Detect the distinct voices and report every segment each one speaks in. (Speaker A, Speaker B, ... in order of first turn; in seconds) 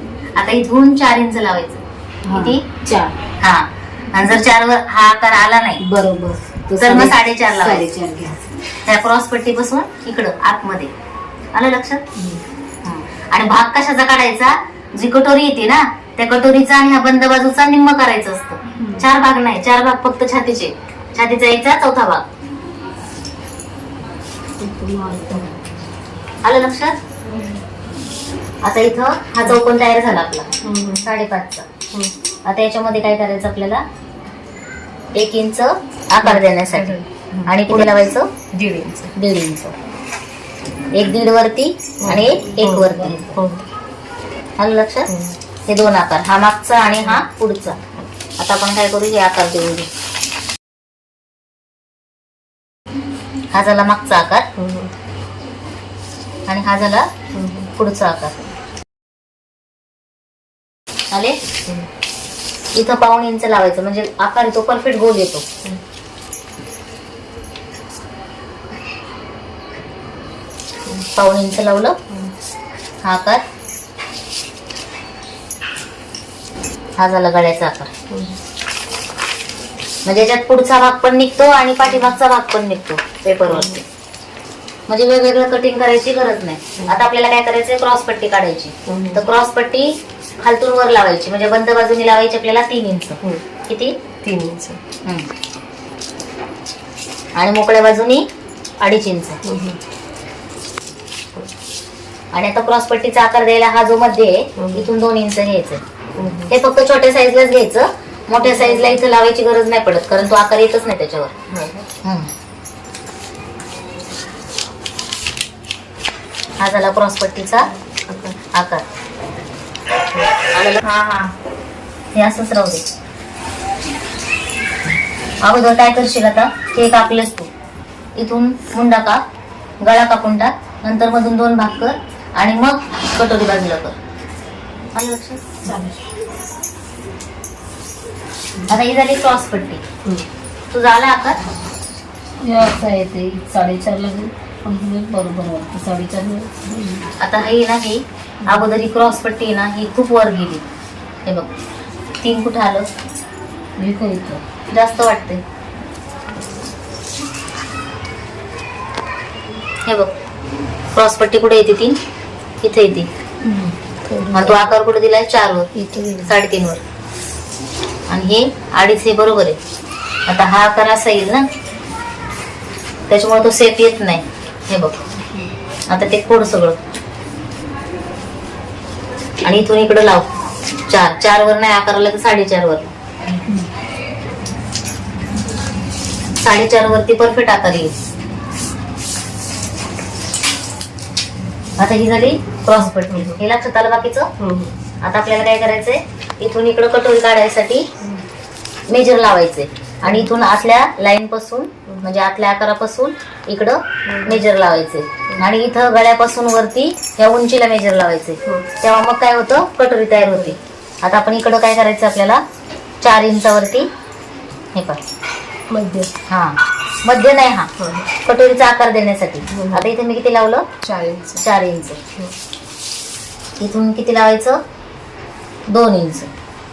Speaker A: 0.3-2.6, 3.4-5.8, 6.8-7.9, 8.8-10.9, 11.5-12.0, 12.8-22.2, 26.4-27.0, 28.6-30.5, 31.0-31.7, 32.5-33.8, 35.1-38.3, 39.1-39.8, 41.0-43.4, 44.6-45.1, 45.7-47.8, 48.4-49.9, 53.5-54.5, 56.5-57.1, 57.7-58.4, 61.1-61.4, 62.8-65.5, 71.1-72.0, 73.0-73.4, 77.0-77.9, 80.0-83.8, 84.9-93.2, 93.7-94.0, 97.4-98.2, 98.8-99.4, 102.3-105.8, 106.5-111.3, 112.0-112.3, 116.6-117.7, 118.5-118.8, 120.5-120.8, 122.1-122.8, 125.4-127.5, 128.2-129.2, 129.8-133.9, 134.9-135.6, 138.7-139.8, 140.7-141.4, 147.2-150.6, 152.2-152.8, 154.7-155.4, 159.8-160.1, 160.9-162.0, 162.6-163.1, 164.3-166.8, 168.1-169.6, 170.3-171.4, 173.1-175.0, 175.9-176.8, 179.4-180.3, 180.9-182.9, 186.4-187.9, 191.8-194.3, 195.0-197.8, 198.9-212.4, 213.0-213.9, 214.7-215.0, 216.3-217.7, 218.2-220.6, 221.4-222.0, 223.6-224.6, 225.7-226.3
Speaker B: 2.3-3.1, 5.8-8.4, 24.6-25.5, 135.6-136.0, 142.4-147.0, 153.8-154.4, 163.5-164.6, 165.7-166.3
Speaker C: 30.6-31.1, 36.2-37.9, 38.5-39.1, 42.0-43.6, 45.1-45.4, 47.0-47.2, 54.5-54.9, 57.3-57.7, 78.1-78.4, 81.9-82.1, 83.2-83.8, 88.8-89.2, 94.2-94.8, 99.4-99.8, 104.6-104.9, 106.2-106.5, 108.4-109.0, 111.5-111.9, 117.9-118.4, 120.1-121.3, 193.1-193.4, 194.4-194.7, 200.0-200.3, 204.1-204.4, 210.3-210.6, 215.7-216.1, 217.8-218.1, 219.5-219.9, 220.8-221.4